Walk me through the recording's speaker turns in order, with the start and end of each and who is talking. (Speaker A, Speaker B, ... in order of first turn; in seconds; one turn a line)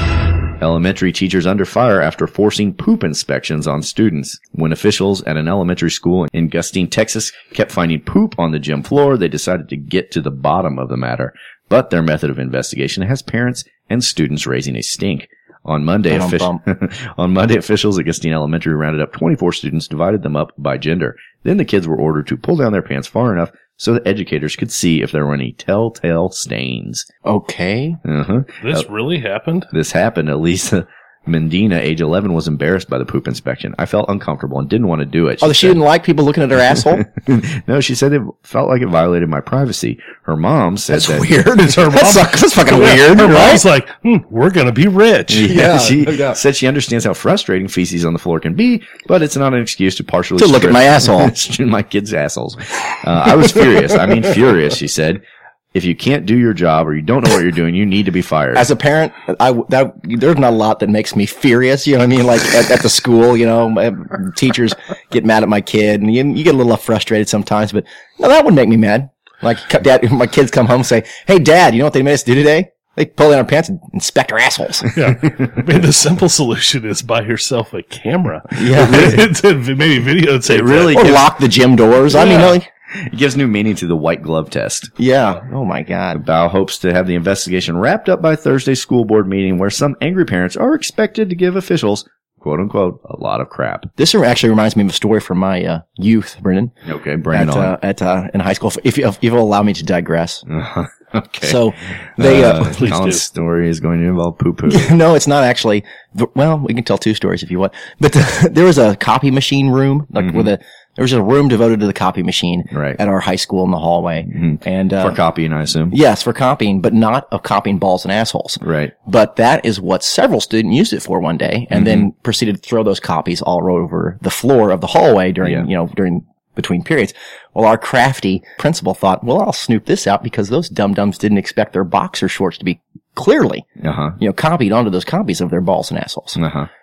Speaker A: 0.6-27.1
Speaker B: 16.1-16.6
Speaker B: 27.2-28.0
Speaker A: 28.1-28.9
Speaker C: 28.6-29.7
Speaker A: 29.7-35.8
Speaker B: 35.4-37.0
Speaker A: 36.9-41.4
Speaker B: 40.9-43.6
Speaker C: 41.6-45.6
Speaker A: 45.3-55.2
Speaker B: 45.5-46.4
Speaker B: 50.4-51.3
Speaker B: 53.5-53.9
Speaker A: 55.7-58.6
Speaker B: 58.5-74.9
Speaker C: 74.9-81.1
Speaker B: 78.5-79.3
Speaker A: 80.5-81.3
Speaker B: 80.9-82.7
Speaker A: 82.1-84.9
Speaker B: 85.0-86.2
Speaker A: 86.1-93.9
Speaker B: 94.0-96.7
Speaker A: 96.8-97.7
Speaker B: 97.3-100.4
Speaker A: 100.5-101.6
Speaker B: 101.4-102.8
Speaker A: 102.2-104.9
Speaker C: 102.6-103.2
Speaker B: 104.7-115.2
Speaker A: 110.2-110.5
Speaker A: 112.7-113.0
Speaker A: 114.3-116.0
Speaker B: 115.9-133.7
Speaker A: 118.6-118.9
Speaker A: 121.7-122.1
Speaker A: 133.8-134.2
Speaker B: 134.2-136.4
Speaker A: 136.4-136.7